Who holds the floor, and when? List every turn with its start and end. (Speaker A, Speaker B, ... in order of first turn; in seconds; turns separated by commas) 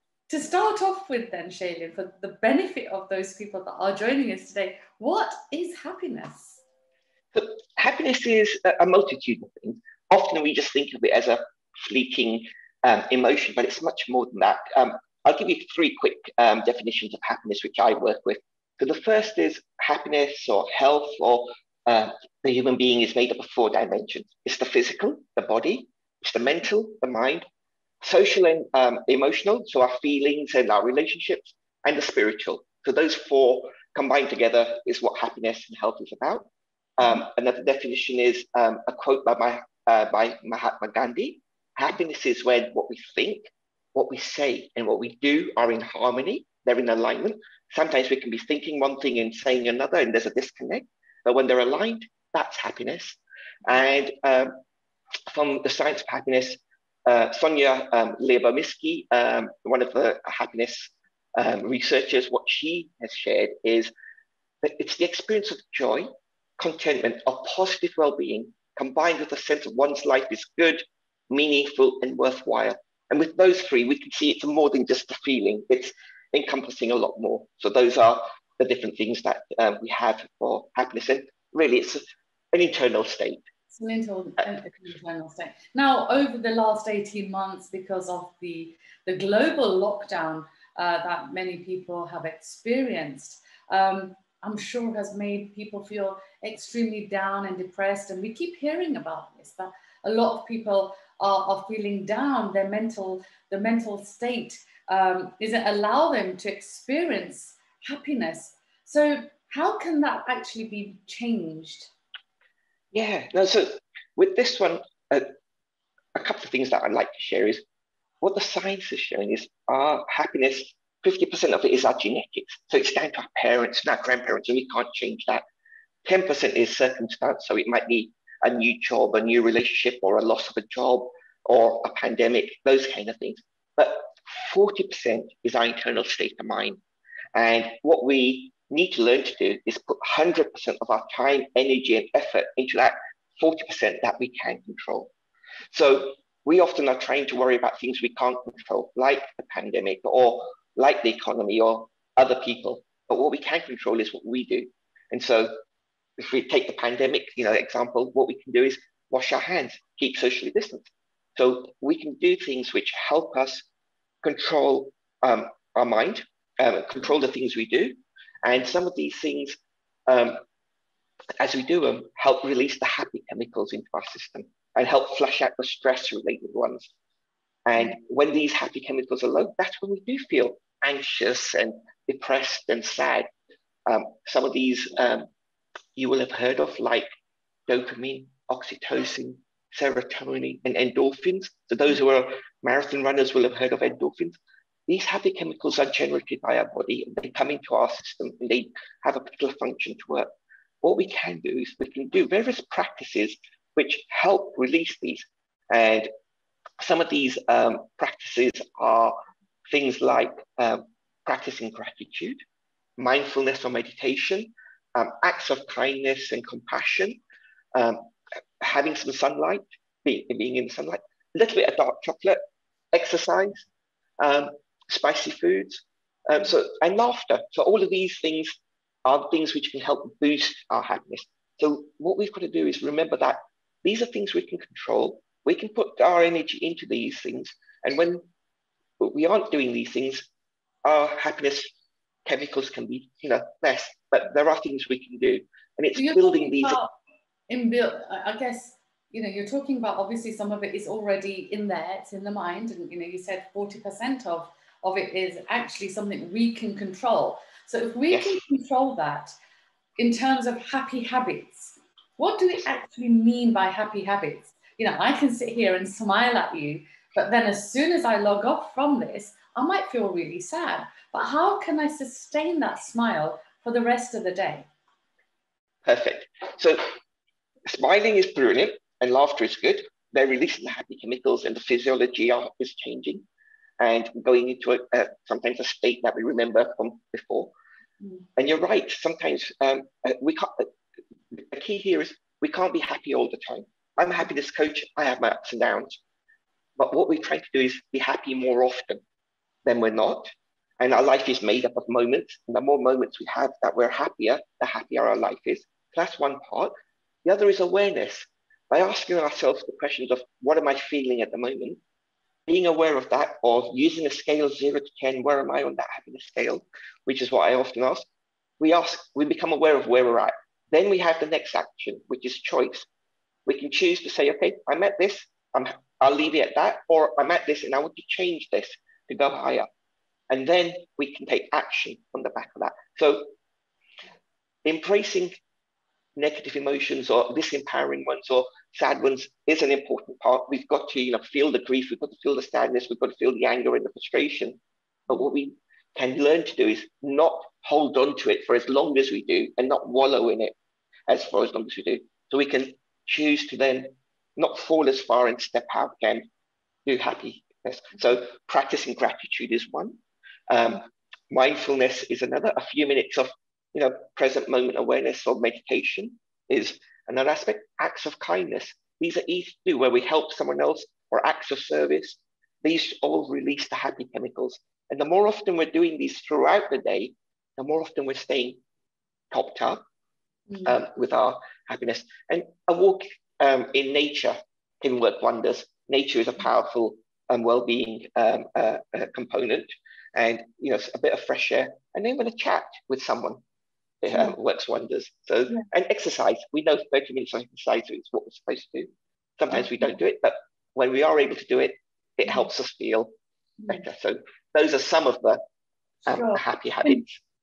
Speaker A: 0.3-6.6, Speaker B: 7.3-27.4, Speaker B: 28.0-36.5, Speaker B: 37.0-54.5, Speaker B: 55.3-63.9, Speaker B: 64.6-83.5, Speaker A: 83.7-111.9, Speaker B: 112.9-115.3, Speaker B: 116.2-117.6, Speaker B: 118.2-125.4, Speaker B: 126.0-136.8, Speaker B: 137.3-145.1, Speaker B: 145.7-155.5, Speaker B: 156.2-163.7, Speaker B: 164.2-170.4, Speaker B: 171.4-176.9, Speaker B: 177.7-183.3, Speaker B: 183.9-185.3, Speaker B: 186.0-187.1, Speaker B: 187.7-194.4, Speaker B: 194.9-200.3, Speaker B: 200.8-206.1, Speaker B: 206.8-209.2, Speaker B: 209.7-212.4, Speaker B: 213.0-217.2, Speaker B: 217.8-218.0, Speaker B: 218.6-222.4, Speaker B: 222.9-223.7, Speaker B: 224.2-238.2, Speaker B: 239.0-240.3, Speaker B: 240.8-241.7, Speaker B: 242.2-246.8, Speaker A: 245.9-247.0, Speaker A: 247.5-259.4, Speaker B: 258.1-258.4, Speaker A: 260.0-274.7, Speaker B: 275.8-276.8, Speaker B: 277.7-283.2, Speaker B: 283.8-287.5, Speaker A: 288.0-288.3, Speaker B: 288.4-290.7, Speaker B: 291.3-296.0, Speaker B: 296.8-299.0, Speaker B: 299.6-306.7, Speaker B: 307.2-311.8, Speaker B: 312.5-318.1, Speaker B: 318.6-322.9, Speaker B: 323.5-329.7, Speaker B: 330.3-333.3, Speaker B: 334.6-335.4, Speaker B: 336.2-350.5, Speaker B: 351.1-356.3, Speaker B: 356.9-360.0, Speaker B: 360.5-378.6, Speaker B: 379.3-379.8, Speaker A: 380.5-380.8, Speaker B: 380.6-393.4, Speaker B: 394.0-403.1, Speaker A: 394.1-394.4, Speaker A: 399.5-400.0, Speaker B: 403.7-405.4, Speaker A: 406.1-407.0, Speaker B: 406.1-407.2